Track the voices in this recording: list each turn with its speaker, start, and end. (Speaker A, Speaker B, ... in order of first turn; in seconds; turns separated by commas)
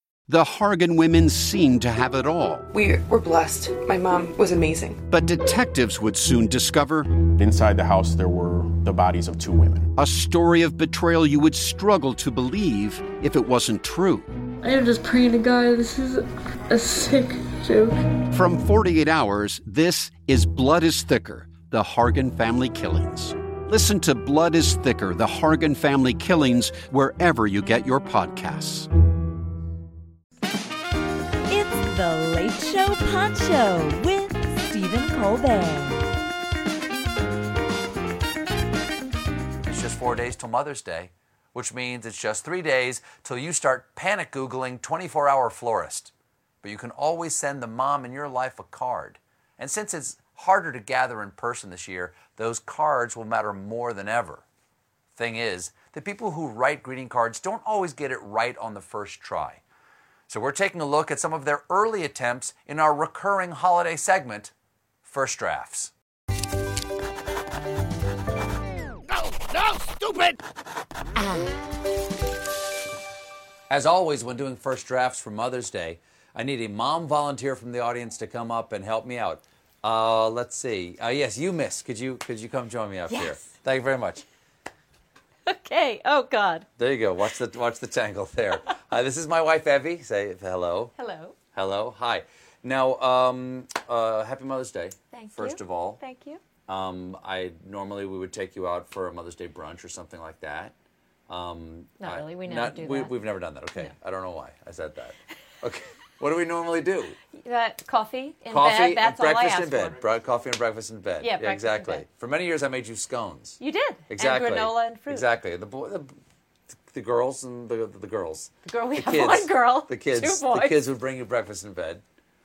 Speaker A: 0.3-2.6, Speaker B: 2.7-5.0, Speaker A: 5.1-7.0, Speaker C: 7.3-10.0, Speaker A: 10.0-14.2, Speaker D: 14.6-17.9, Speaker A: 18.3-28.9, Speaker E: 31.5-36.0, Speaker F: 39.6-54.4, Speaker F: 55.1-59.6, Speaker F: 60.3-64.5, Speaker F: 65.0-65.9, Speaker F: 73.7-84.2, Speaker G: 85.5-86.7, Speaker F: 86.8-90.9, Speaker G: 91.0-91.3, Speaker F: 91.5-96.0, Speaker G: 95.1-96.4, Speaker F: 96.7-100.7, Speaker F: 101.3-107.2, Speaker G: 102.0-103.1, Speaker G: 107.4-110.0, Speaker F: 108.5-116.1, Speaker G: 111.2-112.0, Speaker G: 113.6-115.2, Speaker F: 116.9-122.0, Speaker G: 118.7-120.8